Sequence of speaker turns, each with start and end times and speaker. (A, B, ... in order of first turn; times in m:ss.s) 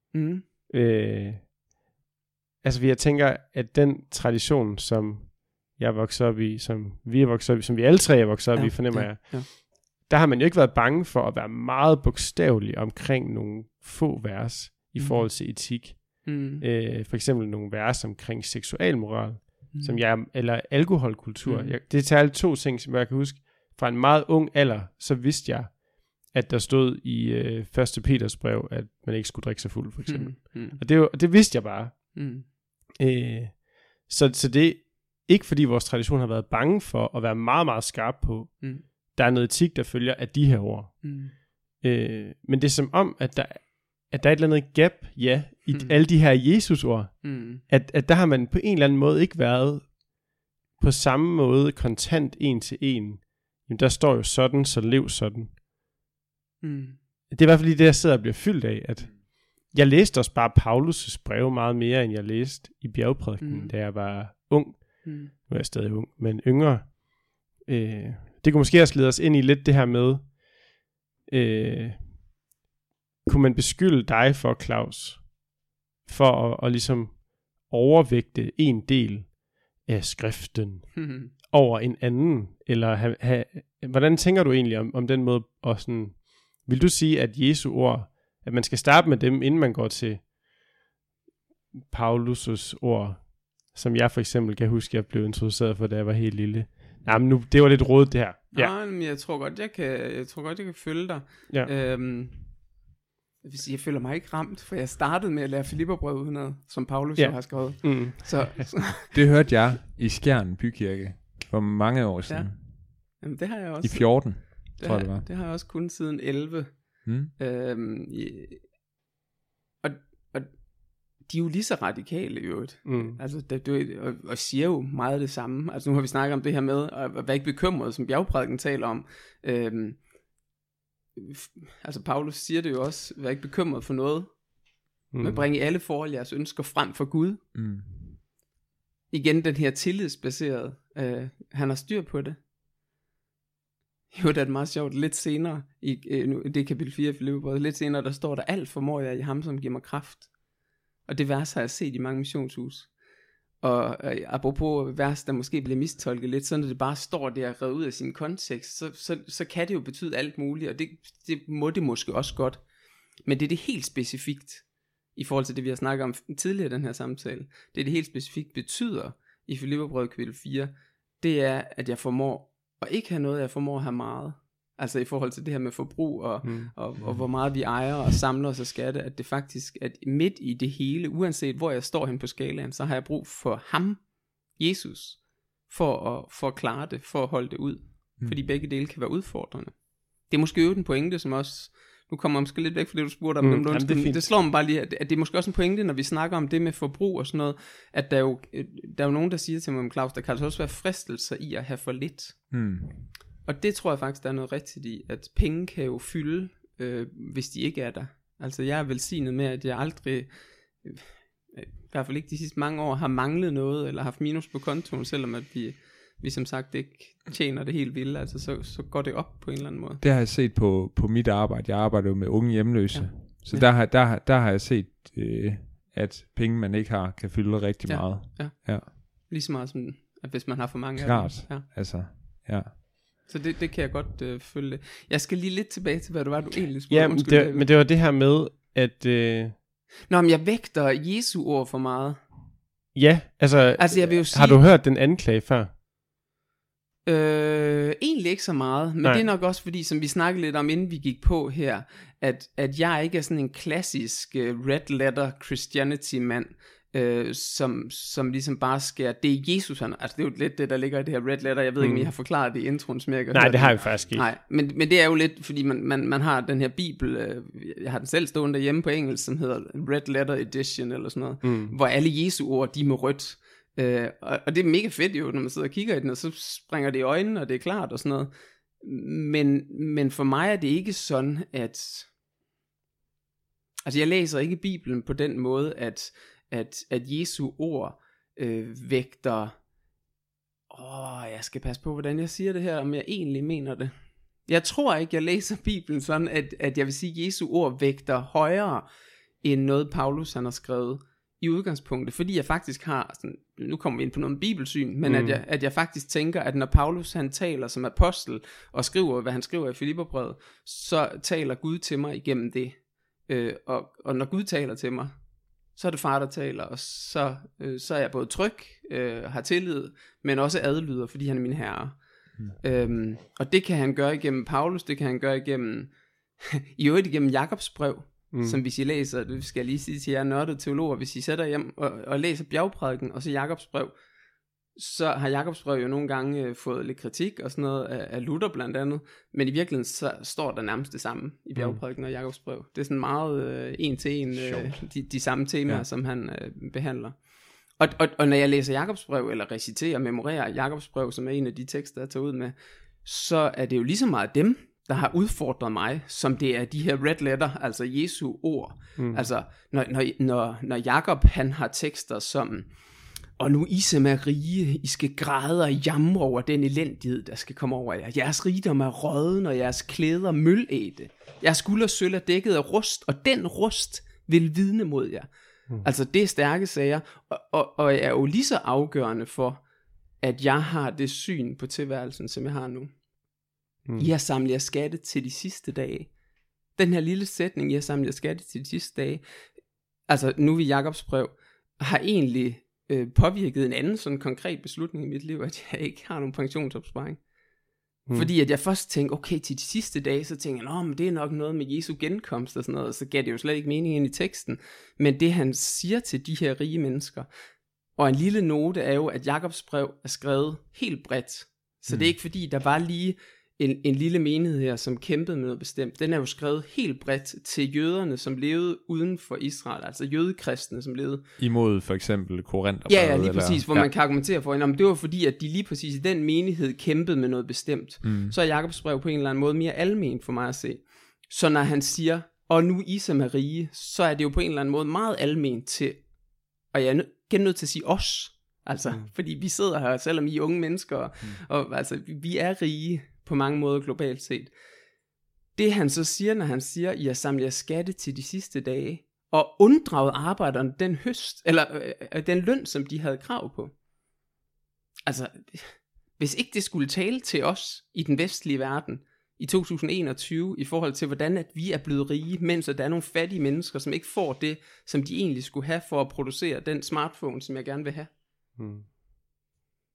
0:00.1-0:00.4 A
0:00.7-0:01.5 B
0:02.6-0:32.5 B
0:08.5-0:09.5 A
0:15.0-0:15.3 A
0:16.2-0:16.6 A
0:19.7-0:20.0 A
0:21.4-0:21.7 A
0:30.1-0:30.8 A
0:32.1-0:32.4 A
0:33.0-0:50.0 B
0:41.0-0:41.3 A
0:47.2-0:47.6 A
0:50.8-0:55.6 B
0:56.6-0:57.0 A
0:57.3-1:10.5 B
1:03.4-1:03.7 A
1:05.0-1:05.3 A
1:11.3-1:12.3 B
1:13.2-1:15.4 B
1:16.0-1:30.3 B
1:21.0-1:21.3 A
1:31.9-1:38.7 B
1:38.5-1:42.5 A
1:43.4-1:49.1 A
1:47.2-1:48.7 B
1:49.1-1:52.9 C
1:52.3-1:58.6 A
1:53.8-1:55.2 C
1:57.0-1:57.3 C
1:59.8-2:00.6 A
2:01.2-2:10.0 A
2:02.8-2:03.2 B
2:11.2-2:14.4 A
2:15.1-2:17.4 A
2:15.1-2:15.5 B
2:17.5-2:18.1 C
2:19.1-2:22.4 A
2:24.1-2:30.3 A
2:31.0-2:32.9 A
2:33.6-2:42.6 A
2:43.2-2:44.6 A
2:45.2-3:04.0 A
2:56.4-2:56.7 B
2:57.0-2:57.2 C
3:04.6-3:22.5 A
3:13.4-3:14.3 B
3:22.5-3:23.1 C
3:23.4-3:40.0 A
3:40.0-3:48.9 C
3:42.9-3:43.7 A
3:47.8-3:51.6 A
3:51.0-3:52.8 C
3:53.2-3:57.6 A
3:56.9-3:59.6 B
4:00.1-4:02.2 A
4:02.9-4:05.7 B
4:03.8-4:04.6 A
4:07.0-4:42.1 A
4:21.8-4:22.1 B
4:23.3-4:24.2 B
4:23.6-4:24.1 C
4:31.4-4:31.8 B
4:43.8-4:49.5 A
4:50.7-4:53.9 A
4:54.4-4:58.8 A
4:59.4-5:15.2 A
5:05.0-5:05.4 B
5:15.7-5:33.9 A
5:28.3-5:28.6 B
5:34.8-5:47.2 A
5:44.3-5:44.8 C
5:47.8-6:02.7 A
5:59.0-5:59.2 B
6:03.4-6:15.3 A
6:15.8-6:19.6 A
6:20.2-6:22.9 A
6:23.8-6:24.1 B
6:24.0-6:26.1 A
6:26.7-6:29.2 A
6:30.1-6:37.2 A
6:38.1-6:47.3 A
6:48.0-7:01.2 A
6:51.9-6:52.2 C
7:01.4-7:03.9 C
7:02.9-7:16.1 A
7:08.0-7:08.3 C
7:16.7-7:24.5 A
7:25.5-7:33.7 A
7:35.0-7:48.1 A
7:48.6-7:48.9 B